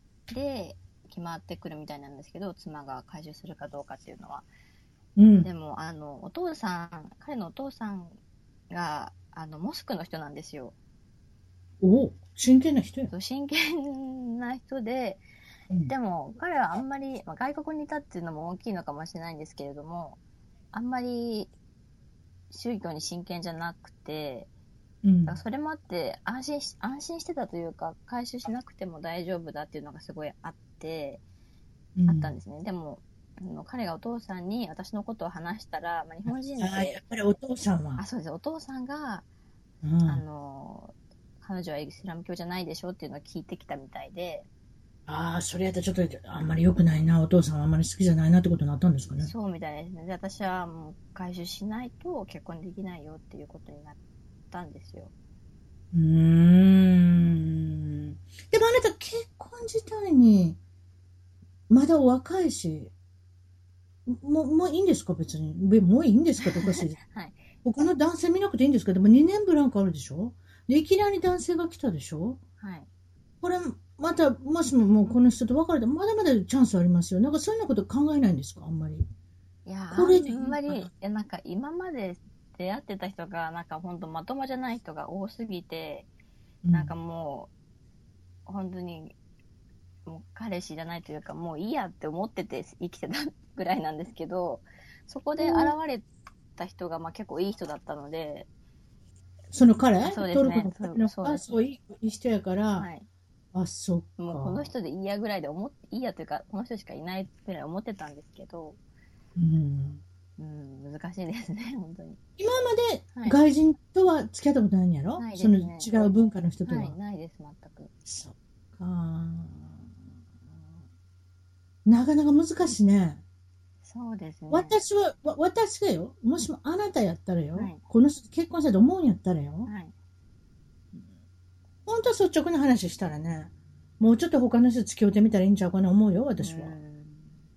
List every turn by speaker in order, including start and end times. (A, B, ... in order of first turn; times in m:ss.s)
0:00.3-0:04.5 A
0:05.2-0:05.5 B
0:05.4-0:08.2 A
0:08.7-0:10.7 A
0:11.8-0:13.1 B
0:13.1-0:15.2 A
0:15.9-0:20.2 A
0:20.7-0:21.5 A
0:22.5-0:24.5 A
0:25.0-0:25.4 B
0:25.3-0:31.2 A
0:32.0-0:32.3 B
0:32.1-0:37.0 A
0:36.3-0:38.0 B
0:38.0-0:39.2 A
0:39.8-0:40.2 B
0:40.0-0:44.5 A
0:45.1-0:49.3 B
0:49.2-0:54.0 A
0:54.5-0:55.1 A
0:55.9-1:00.6 B
1:01.7-1:02.9 B
1:04.1-1:07.0 B
1:06.4-1:07.4 A
1:07.6-1:12.4 B
1:12.6-1:12.9 A
1:13.4-1:19.0 B
1:19.7-1:26.1 A
1:19.9-1:20.9 B
1:26.6-1:26.9 B
1:26.7-1:27.5 A
1:28.5-1:29.2 A
1:30.1-1:36.1 A
1:35.4-1:35.7 B
1:36.6-1:38.5 A
1:39.5-1:42.9 B
1:40.0-1:41.5 A
1:42.8-1:43.1 A
1:43.5-1:44.7 B
1:44.2-1:48.8 A
1:49.4-1:50.0 B
1:50.4-1:52.2 A
1:52.4-1:57.0 B
1:55.2-1:55.9 A
1:56.7-1:57.9 A
1:58.0-1:59.8 B
2:01.9-2:03.2 B
2:03.8-2:04.8 A
2:04.5-2:09.7 B
2:07.6-2:07.8 A
2:09.7-2:09.9 A
2:11.9-2:16.8 B
2:16.4-2:17.3 A